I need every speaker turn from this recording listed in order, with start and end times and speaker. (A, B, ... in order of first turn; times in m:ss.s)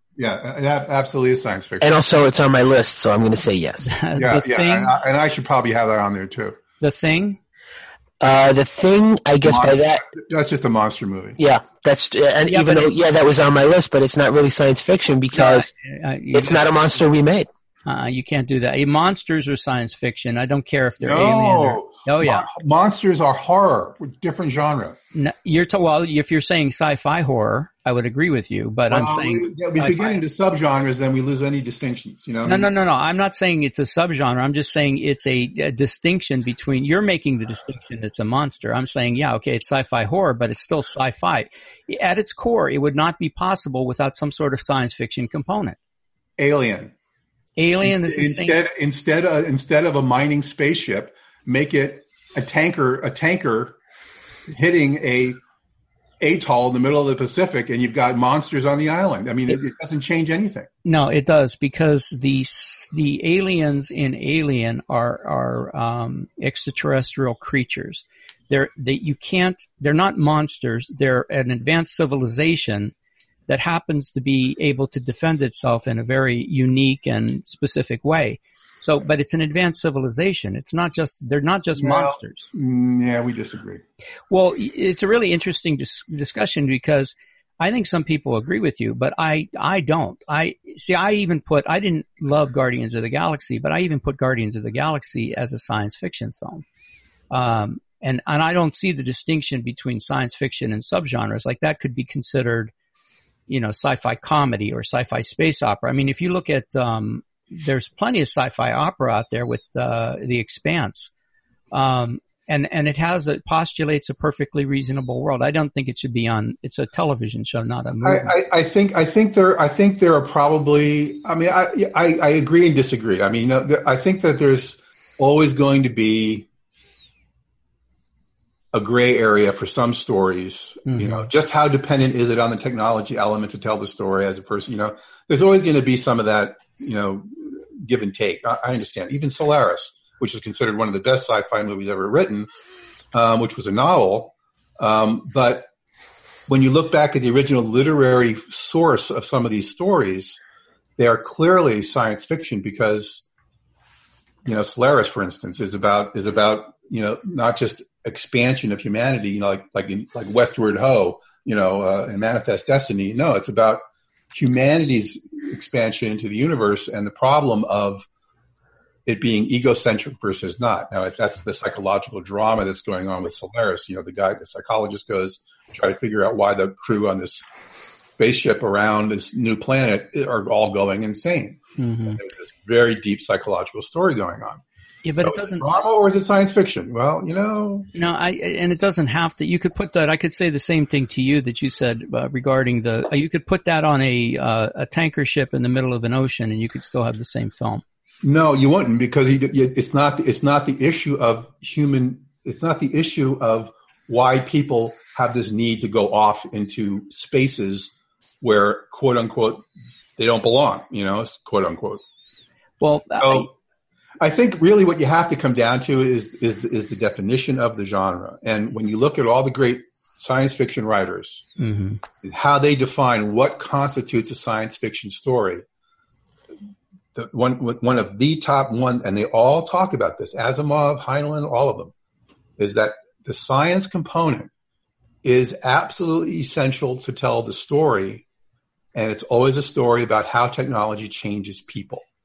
0:00.2-0:02.0 A
0:01.8-0:03.9 B
0:03.8-0:04.9 C
0:04.2-0:06.6 A
0:06.8-0:07.4 C
0:08.2-0:10.0 B
0:09.4-0:11.4 A
0:11.4-0:15.7 B
0:12.5-0:12.9 C
0:15.3-0:17.0 C
0:16.3-0:17.5 B
0:17.9-0:22.5 C
0:21.0-0:25.0 A
0:25.1-0:30.2 C
0:28.9-0:32.7 A
0:32.5-0:45.8 C
0:46.4-0:46.9 A
0:47.6-0:48.6 C
0:47.8-0:53.8 A
0:54.5-0:55.4 A
0:56.2-1:00.7 A
1:00.8-1:12.9 C
1:13.5-1:22.5 C
1:21.8-1:23.8 A
1:24.3-1:36.6 C
1:37.3-1:42.7 C
1:43.5-1:51.1 C
1:51.7-1:58.4 C
1:58.0-2:06.5 A
2:08.7-2:22.5 A
2:10.9-2:11.2 C
2:23.1-2:25.7 A
2:26.5-2:30.4 A
2:31.0-2:33.2 A
2:34.4-2:48.1 A
2:49.0-2:57.4 A
2:58.2-3:01.6 A
3:01.8-3:02.2 C
3:02.2-3:04.6 A
3:05.0-3:05.8 C
3:05.2-3:07.9 A
3:07.9-3:17.8 C
3:18.2-3:29.7 A
3:30.2-3:32.0 A
3:32.8-3:33.5 C
3:33.2-3:33.5 A
3:34.2-3:41.5 A
3:41.6-3:42.0 C
3:42.2-3:45.6 A
3:47.2-3:51.9 A
3:52.6-3:54.5 A
3:55.2-3:58.2 A
3:58.9-4:02.0 A